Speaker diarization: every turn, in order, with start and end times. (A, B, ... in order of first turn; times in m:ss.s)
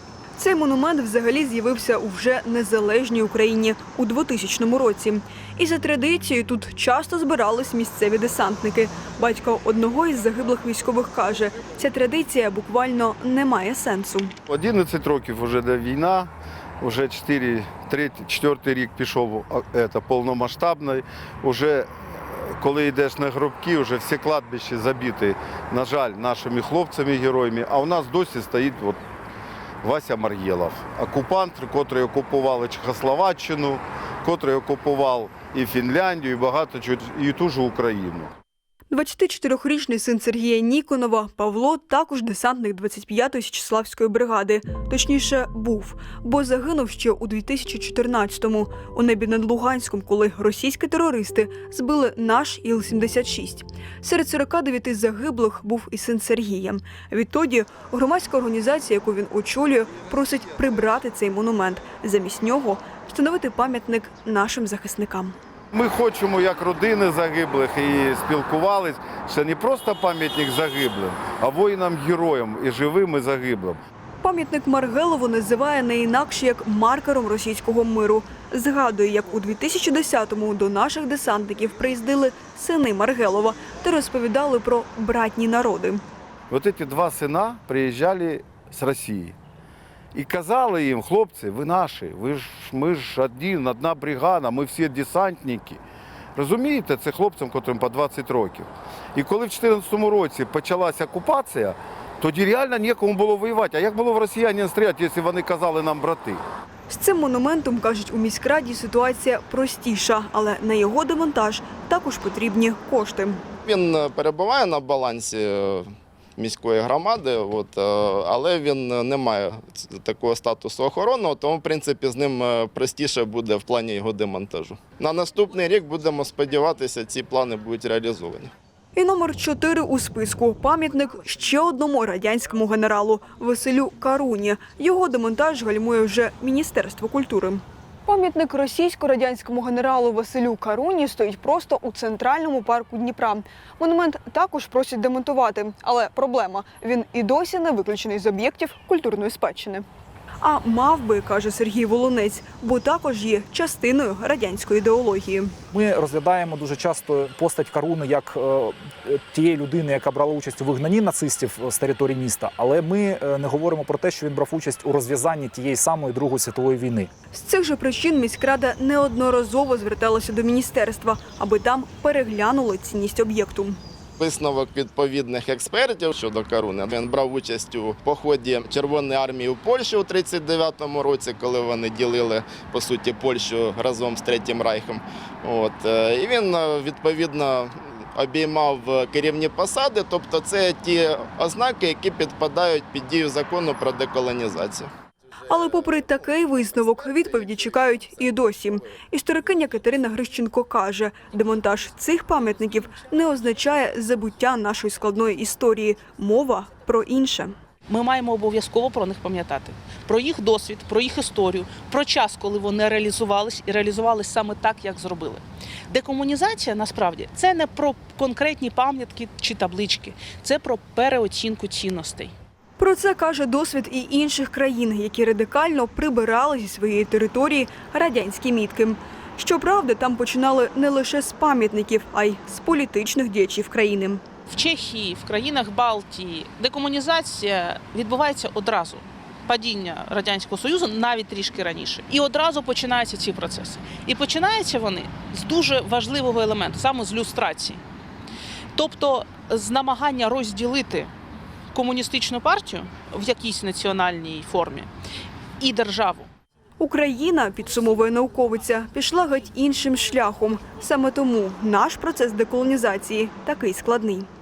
0:00.4-0:14.3 A
0:14.5-0:21.9 B
0:22.5-0:29.0 B
0:29.8-0:38.3 B
0:38.9-1:05.4 A
1:05.7-1:13.8 B
1:14.2-1:26.0 A
1:26.5-1:29.3 B
1:30.1-1:35.8 B
1:36.4-1:46.4 B
1:46.9-1:53.4 A
1:53.6-2:08.5 C
2:08.9-2:29.8 A
2:30.4-2:35.5 A
2:35.7-2:47.1 D
2:47.3-2:53.8 A
2:54.2-3:14.9 C
3:15.5-3:27.6 A
3:27.9-3:35.3 E
3:35.9-3:42.2 E
3:42.8-3:54.2 A
3:54.5-3:58.9 E
3:59.5-4:07.7 E
4:08.8-4:11.0 E
4:11.8-4:14.8 E
4:15.6-4:16.2 E
4:16.8-4:24.3 A